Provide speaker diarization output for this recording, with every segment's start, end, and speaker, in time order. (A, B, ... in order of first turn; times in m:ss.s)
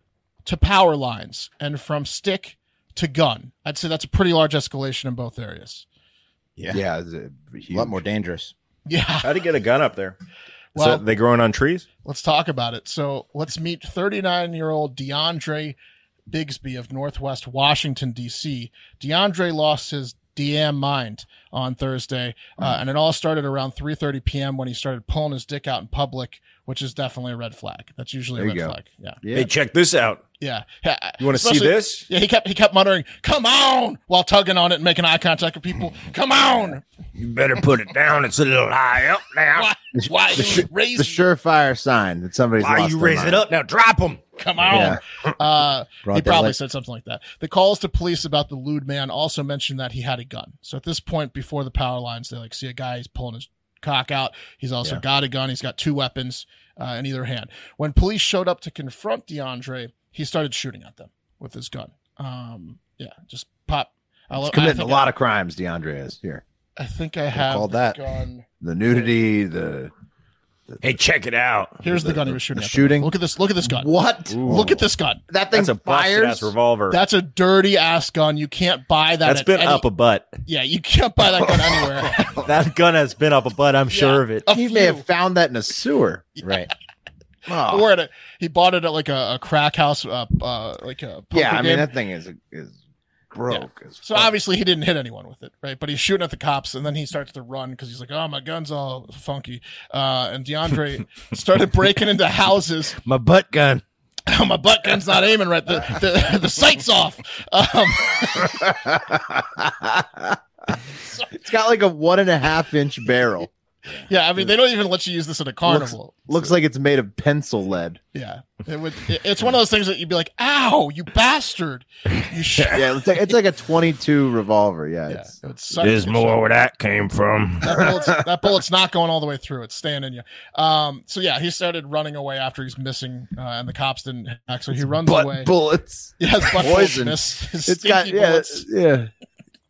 0:00.4-0:05.9 A
0:06.7-0:08.0 B
0:07.7-0:08.5 C
0:08.9-0:09.3 A
0:09.2-0:10.2 D
0:10.8-0:11.0 A
0:10.8-0:11.9 D
0:12.0-0:15.8 A
0:16.3-0:29.2 A
0:28.4-0:29.5 B
0:29.3-0:30.2 D
0:30.4-0:36.8 A
0:31.2-0:32.1 D
0:37.2-0:39.7 D
0:39.6-0:41.2 A
0:40.0-0:43.4 B
0:42.6-0:44.2 D
0:44.4-1:05.1 A
0:44.7-0:45.0 B
0:46.1-0:46.5 C
1:04.4-1:06.4 B
1:06.8-1:09.1 A
1:07.3-1:08.0 C
1:08.6-1:09.9 B
1:10.8-1:11.8 D
1:11.8-1:13.9 A
1:11.8-1:16.5 B
1:14.3-1:14.8 D
1:14.4-1:15.2 A
1:15.5-1:17.0 D
1:16.9-1:19.8 A
1:19.2-1:20.4 D
1:20.5-1:22.3 A
1:22.3-1:24.4 D
1:23.9-1:25.1 A
1:24.5-1:26.3 B
1:26.4-1:26.6 A
1:26.4-1:26.7 C
1:27.5-1:27.9 B
1:27.6-1:31.9 A
1:31.3-1:32.8 B
1:33.3-1:34.3 B
1:33.5-1:43.0 A
1:43.0-1:43.8 B
1:44.3-1:48.7 A
1:48.4-1:50.4 B
1:51.3-1:53.5 B
1:54.1-1:56.5 A
1:55.7-1:58.0 B
1:58.1-2:02.8 A
2:02.7-2:05.4 B
2:05.1-2:06.4 A
2:05.8-2:07.9 D
2:07.6-2:15.5 A
2:14.8-2:19.1 B
2:16.2-2:18.7 A